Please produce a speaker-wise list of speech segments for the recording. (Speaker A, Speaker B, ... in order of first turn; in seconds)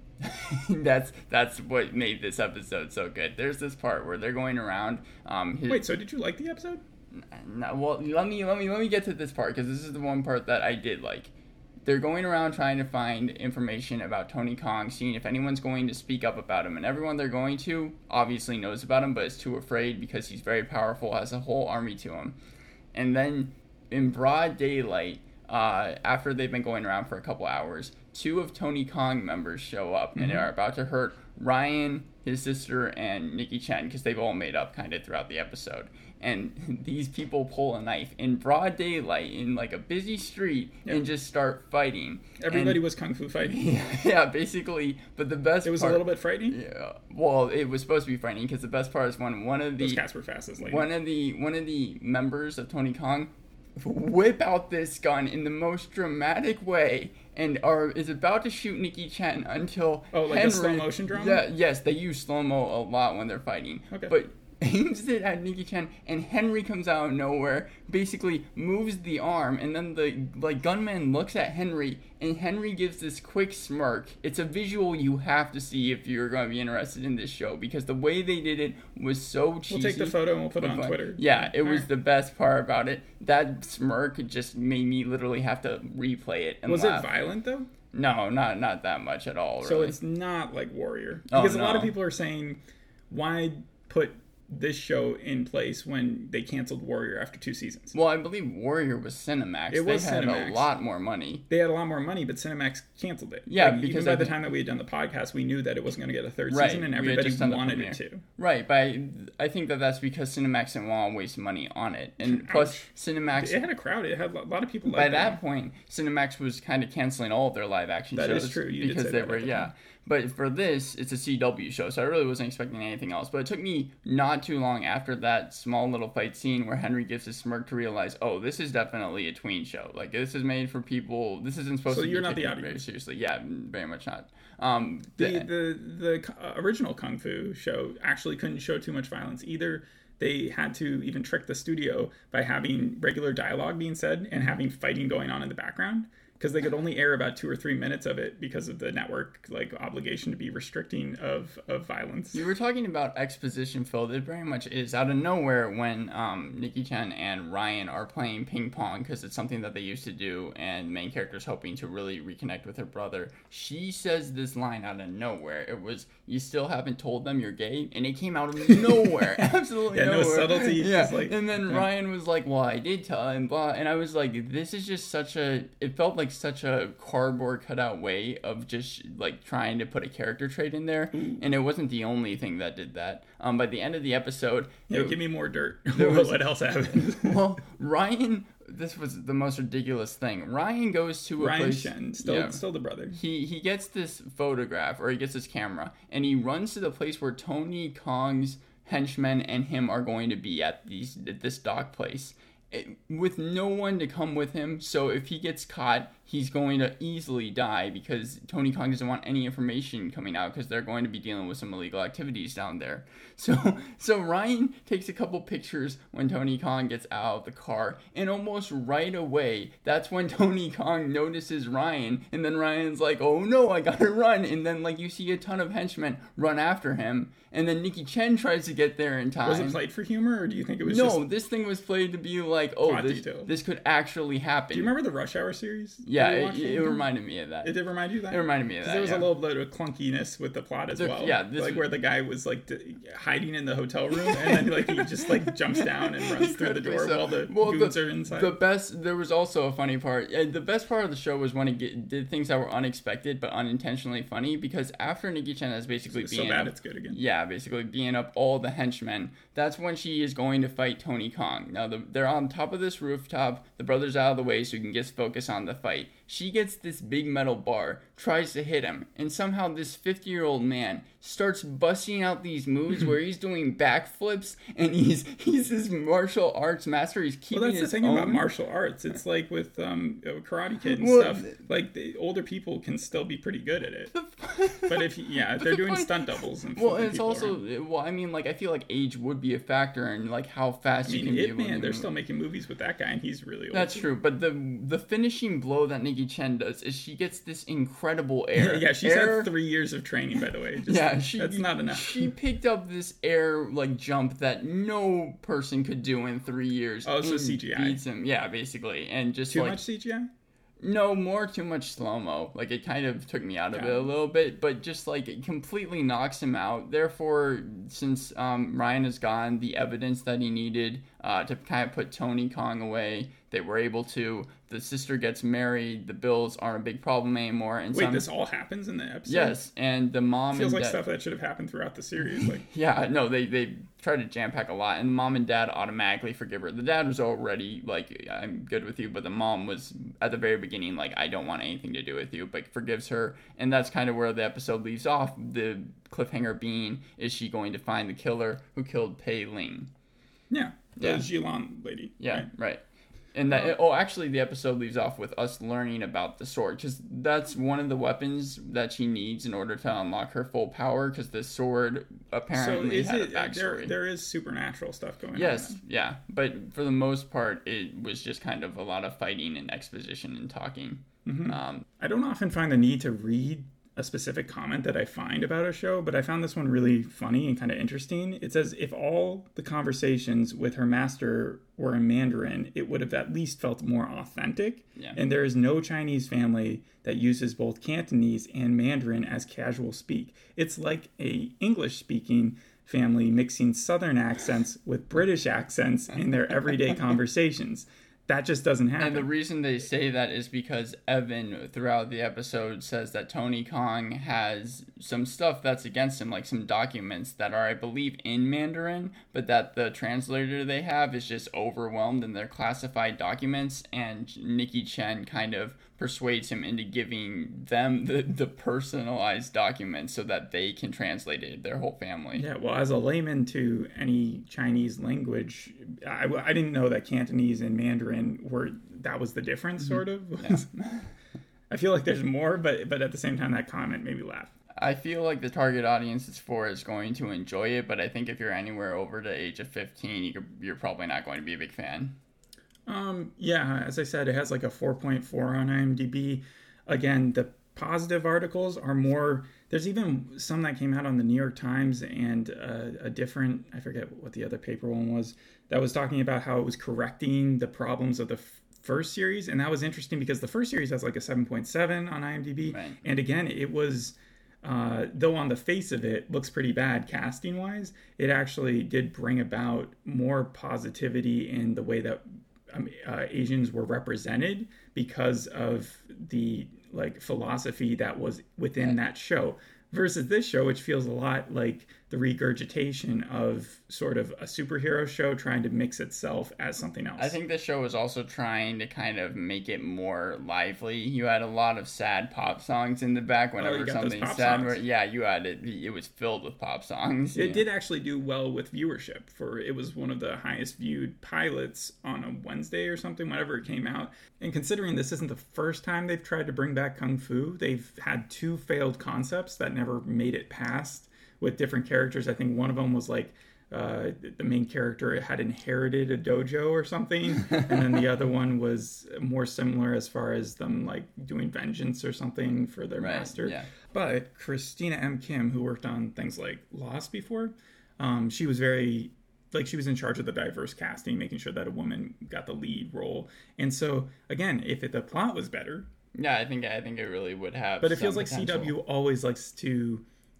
Speaker A: 0.2-5.9, 7.1-11.3, 11.9-22.4, 22.9-42.8, 43.4-50.0, 50.6-87.1, 87.9-90.0, 91.3-92.0, 97.9-101.4, 103.5-104.4, 106.5-113.6, 114.9-135.5, 152.3-185.2, 185.9-229.8, 230.8-234.9, 236.0-237.8, 238.3-239.3, 241.0-241.9, 244.1-278.5, 280.9-281.6, 284.1-292.1, 293.7-299.5, 300.8-309.8, 310.8-328.3, 329.3-331.0, 332.2-349.9, 351.0-351.3, 352.2-364.0, 365.4-371.9, 399.0-422.4, 429.9-431.1, 434.8-442.1, 462.6-463.0, 487.2-497.7, 517.5-517.8, 523.0-523.7, 536.1-538.8
Speaker B: 5.7-6.8, 30.2-30.5, 42.4-43.6, 45.6-46.6, 49.8-50.9, 60.1-61.4, 79.7-81.9, 86.7-87.7, 89.6-98.0, 99.7-100.7, 101.5-108.2, 112.2-115.4, 118.2-119.7, 131.9-132.8, 135.2-152.4, 168.7-171.9, 181.1-181.4, 184.9-187.4, 191.4-193.2, 229.4-231.2, 232.8-233.5, 234.7-237.1, 237.6-248.6, 256.1-257.2, 277.5-284.1, 284.9-287.6, 291.1-294.1, 298.6-302.3, 307.1-308.0, 309.5-310.3, 313.7-314.1, 327.9-329.6, 330.5-332.6, 350.5-352.5, 362.5-365.8, 371.2-399.3, 422.4-430.7, 431.7-434.5, 442.9-487.4, 493.6-494.8, 497.4-535.9, 537.8-540.0